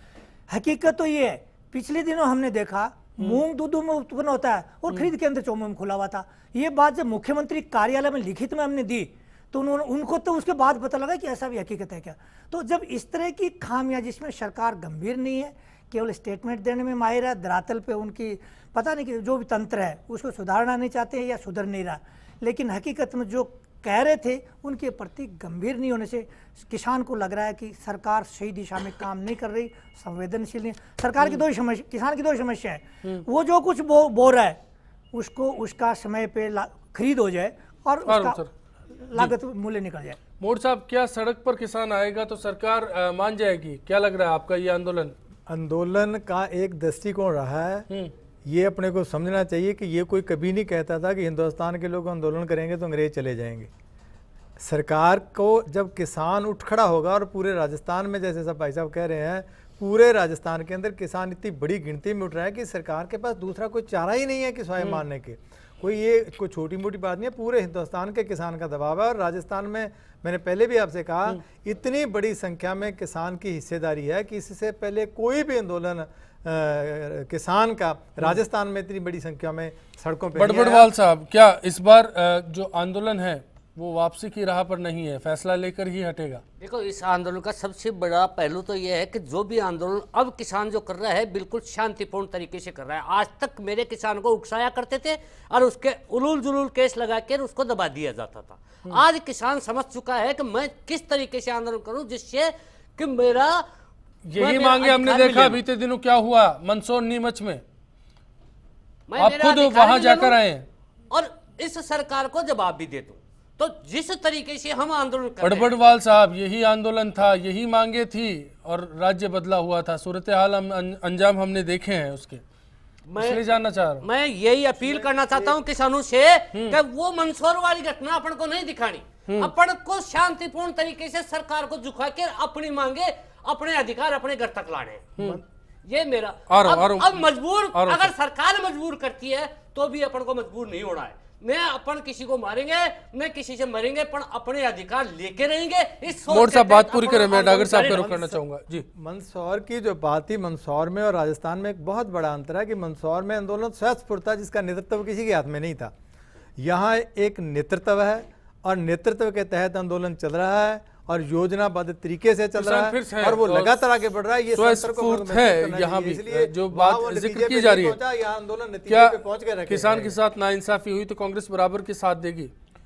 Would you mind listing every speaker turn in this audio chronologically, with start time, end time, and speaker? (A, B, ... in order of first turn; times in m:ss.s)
0:00.5-0:34.6 A
0:35.1-0:40.2 A
0:38.0-0:38.5 B
0:40.4-0:45.1 B
0:45.5-0:47.9 C
0:48.4-0:53.7 C
0:54.6-1:20.9 C
1:04.8-1:05.0 B
1:20.4-1:26.4 B
1:26.6-1:43.6 D
1:44.2-1:47.6 B
1:44.4-1:45.6 D
1:49.1-1:50.4 D
1:49.2-1:50.6 B
1:51.1-1:55.8 D
1:55.4-2:02.4 B
2:03.1-2:03.4 D
2:03.2-2:04.0 B
2:04.0-2:15.0 D
2:15.8-2:28.2 D
2:16.5-2:17.2 B
2:17.7-2:18.1 B
2:26.3-2:28.8 B
2:27.8-2:35.9 C
2:36.6-2:50.2 C
2:42.5-2:43.8 B
2:44.5-2:48.0 B
2:48.9-2:52.5 B